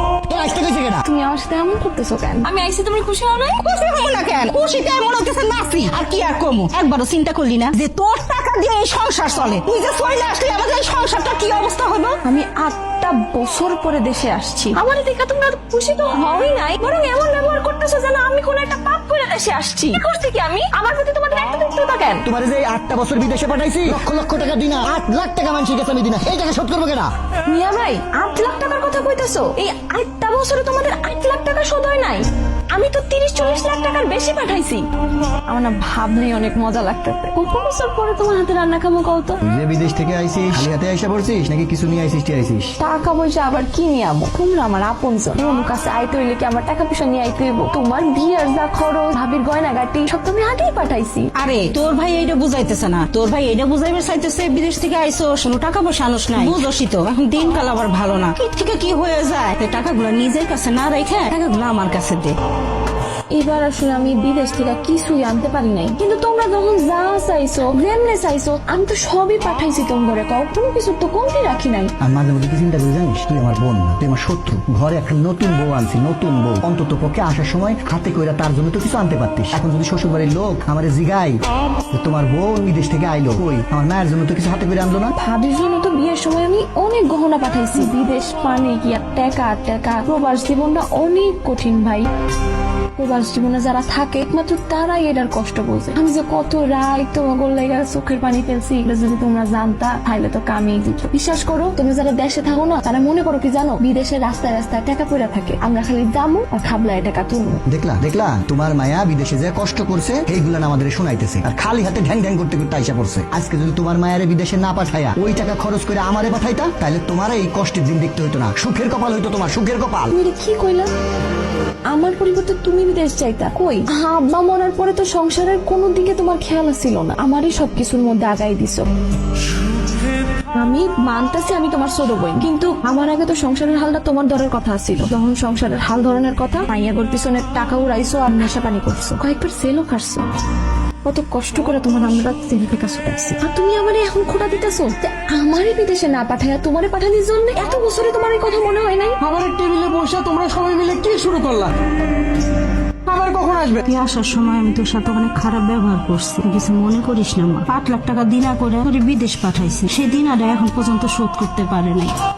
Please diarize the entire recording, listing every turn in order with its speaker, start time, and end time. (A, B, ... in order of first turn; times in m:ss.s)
0:01.0-0:03.6 A
0:03.6-0:12.2 B
0:12.2-0:22.2 A
0:22.2-0:27.0 C
0:24.1-0:25.5 D
0:27.5-0:34.8 A
0:35.5-0:39.4 A
0:39.4-0:42.7 C
0:42.8-0:51.3 A
0:51.4-1:02.4 B
1:03.3-1:11.9 A
1:12.0-1:21.4 C
1:21.9-1:25.1 C
1:25.2-1:32.0 A
1:33.0-1:47.6 A
1:47.7-2:00.1 C
2:00.1-2:00.9 A
2:01.9-2:08.8 A
2:10.6-2:20.2 A
2:21.0-2:29.2 A
2:29.2-2:31.7 D
2:33.1-2:33.8 D
2:33.8-2:42.1 B